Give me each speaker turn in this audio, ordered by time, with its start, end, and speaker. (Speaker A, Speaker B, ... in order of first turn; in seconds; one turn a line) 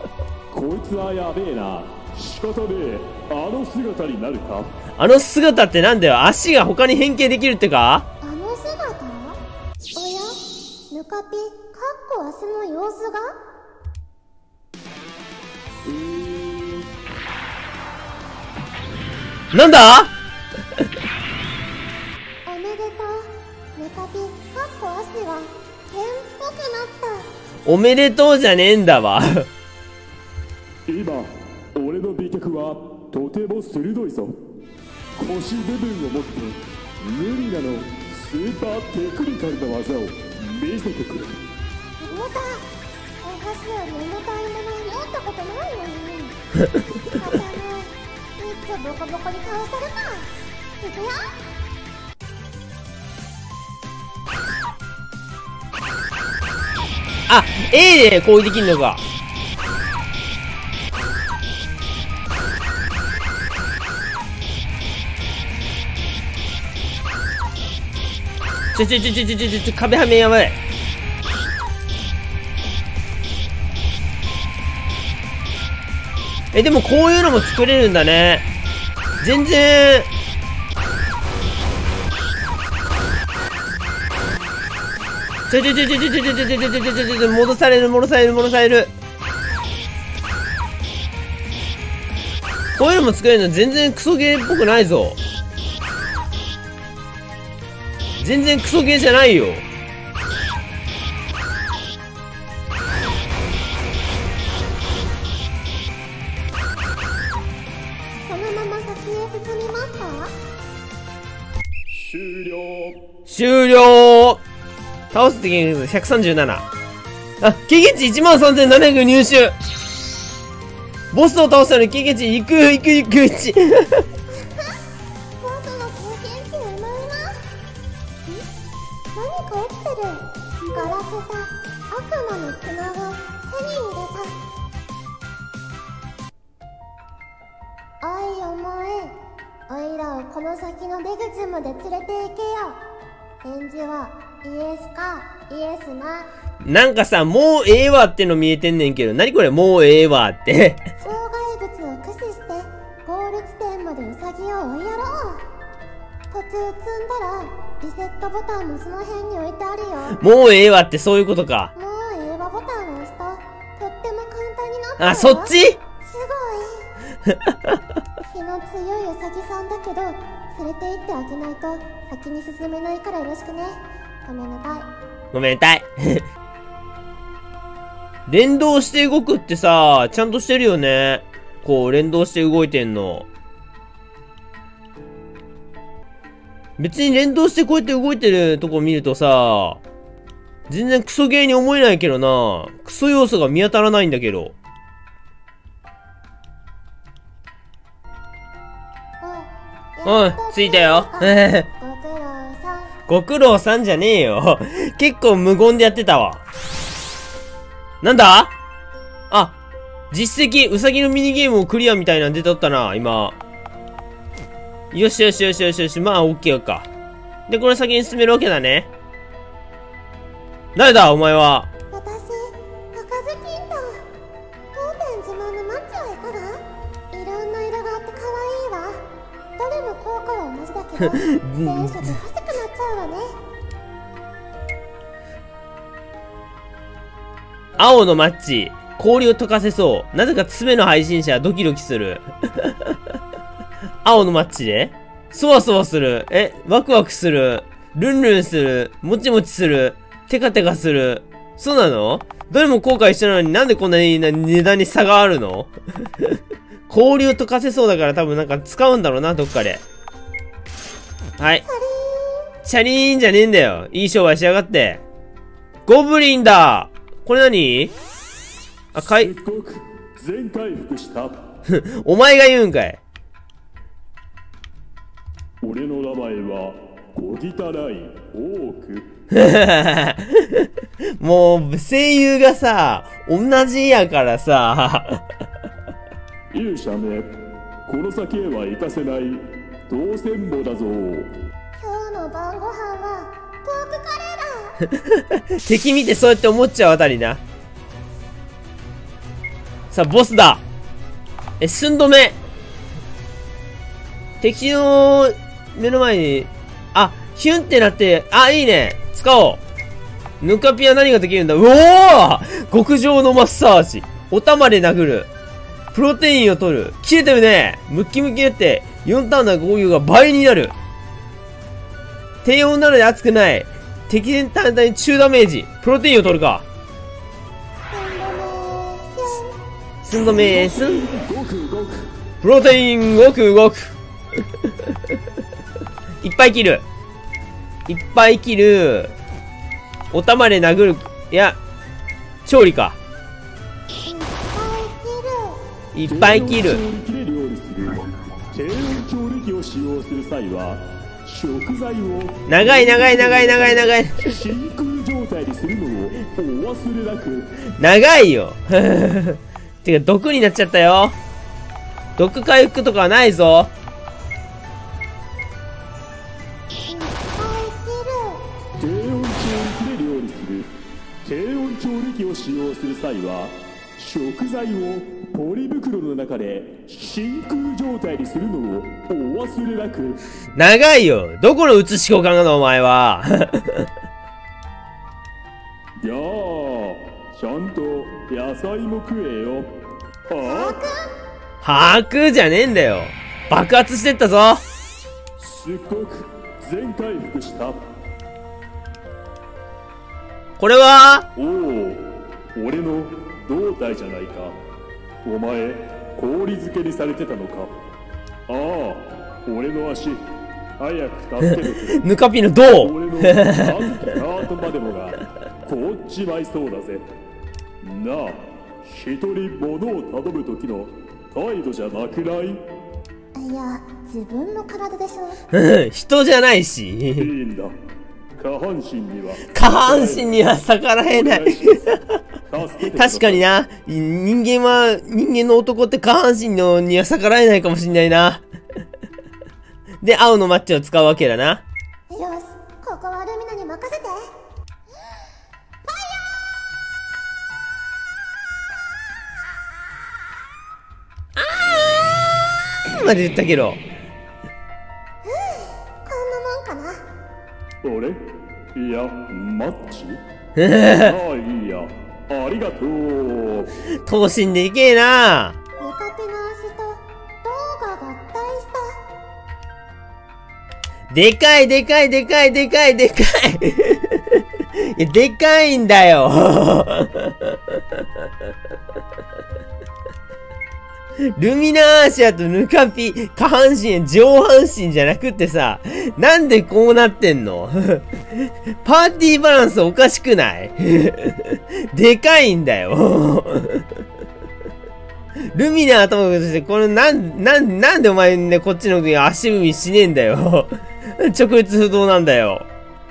Speaker A: 0.5-4.7
Speaker B: 5.0-8.1
Speaker C: 8.2-9.4
Speaker C: 9.9-10.4
Speaker C: 10.9-13.4
Speaker A: 15.8-16.9
Speaker B: 19.5-20.1
Speaker C: 22.4-27.3
Speaker B: 27.6-29.5
Speaker A: 30.9-34.4
Speaker A: 35.2-41.4
Speaker C: 42.0-42.7
Speaker C: 43.2-46.4
Speaker C: 47.0-51.4
Speaker B: 57.3-59.0
Speaker B: 68.7-70.6
Speaker B: 76.5-78.5
Speaker B: 79.2-80.1
Speaker B: 85.5-88.9
Speaker B: 92.8-95.2
Speaker B: 98.2-99.6
Speaker C: 108.2-110.3
Speaker A: 111.9-113.0
Speaker B: 113.3-114.4
Speaker B: 115.1-116.7
Speaker B: 117.4-119.5
Speaker B: 121.1-124.0
Speaker C: 124.3-124.8
Speaker C: 125.4-127.4
Speaker C: 129.1-134.4
Speaker C: 138.0-139.2
Speaker C: 139.7-142.8
Speaker C: 143.4-146.3
Speaker B: 146.6-150.8
Speaker C: 151.0-155.4
Speaker C: 156.3-160.2
Speaker B: 160.2-161.7
Speaker C: 161.8-166.9
Speaker B: 165.0-165.8
Speaker B: 167.3-167.8
Speaker C: 168.3-174.9
Speaker B: 175.3-176.2
Speaker B: 178.3-183.3
Speaker B: 186.8-189.8
Speaker B: 190.7-194.5
Speaker C: 199.2-202.9
Speaker B: 200.0-201.7
Speaker B: 203.1-206.4
Speaker B: 208.0-208.5
Speaker B: 209.3-209.6
Speaker B: 210.1-213.4
Speaker B: 214.9-216.9
Speaker B: 217.5-218.9
Speaker B: 220.7-221.7
Speaker C: 221.9-224.0
Speaker C: 224.7-229.0
Speaker C: 229.6-233.3
Speaker B: 231.0-232.2
Speaker B: 237.8-242.9
Speaker B: 244.0-255.7
Speaker B: 256.9-259.8
Speaker B: 261.4-261.6
Speaker C: 261.6-262.5
Speaker B: 262.6-265.0
Speaker B: 265.9-267.9
Speaker B: 268.9-269.3
Speaker A: 268.9-271.4
Speaker B: 271.7-273.0
Speaker A: 275.6-279.1
Speaker B: 279.3-285.2
Speaker A: 286.5-287.3
Speaker A: 287.9-291.3
Speaker C: 291.8-294.8
Speaker B: 295.1-297.4
Speaker B: 299.9-300.6
Speaker B: 301.6-302.4
Speaker B: 304.4-309.6
Speaker B: 310.4-315.3
Speaker B: 315.9-320.7
Speaker B: 322.4-326.6
Speaker C: 327.9-329.6
Speaker B: 330.0-331.0
Speaker A: 330.1-332.1
Speaker B: 332.4-333.9
Speaker B: 336.2-336.8
Speaker B: 337.9-339.1
Speaker B: 340.1-341.6
Speaker B: 342.4-343.0
Speaker C: 344.0-345.6
Speaker B: 345.9-346.8
Speaker A: 346.0-357.6
Speaker B: 352.5-354.3
Speaker B: 357.8-361.2
Speaker B: 362.2-363.7
Speaker C: 366.9-368.4
Speaker A: 368.8-370.7
Speaker A: 371.2-380.2
Speaker B: 380.6-383.9
Speaker A: 386.0-389.7
Speaker A: 390.3-390.8
Speaker C: 390.4-391.1
Speaker B: 391.6-394.6
Speaker A: 395.4-397.8
Speaker B: 400.6-401.3
Speaker A: 401.4-404.6
Speaker A: 405.2-407.7
Speaker A: 408.5-410.2
Speaker A: 410.8-412.1
Speaker B: 411.9-414.0
Speaker A: 412.7-417.0
Speaker A: 417.8-422.6
Speaker C: 423.3-425.4
Speaker B: 425.5-427.3
Speaker A: 427.1-427.7
Speaker A: 428.4-430.3
Speaker B: 429.5-432.0
Speaker A: 431.1-433.4
Speaker B: 432.9-438.4
Speaker B: 440.0-441.6
Speaker C: 442.1-444.3
Speaker C: 445.9-446.2
Speaker B: 451.4-453.8
Speaker C: 455.2-457.0
Speaker A: 457.8-460.2
Speaker B: 460.6-461.2
Speaker A: 460.9-463.7
Speaker B: 464.1-465.6
Speaker C: 465.8-469.0
Speaker B: 471.1-478.0
Speaker B: 481.2-493.9
Speaker B: 495.5-502.7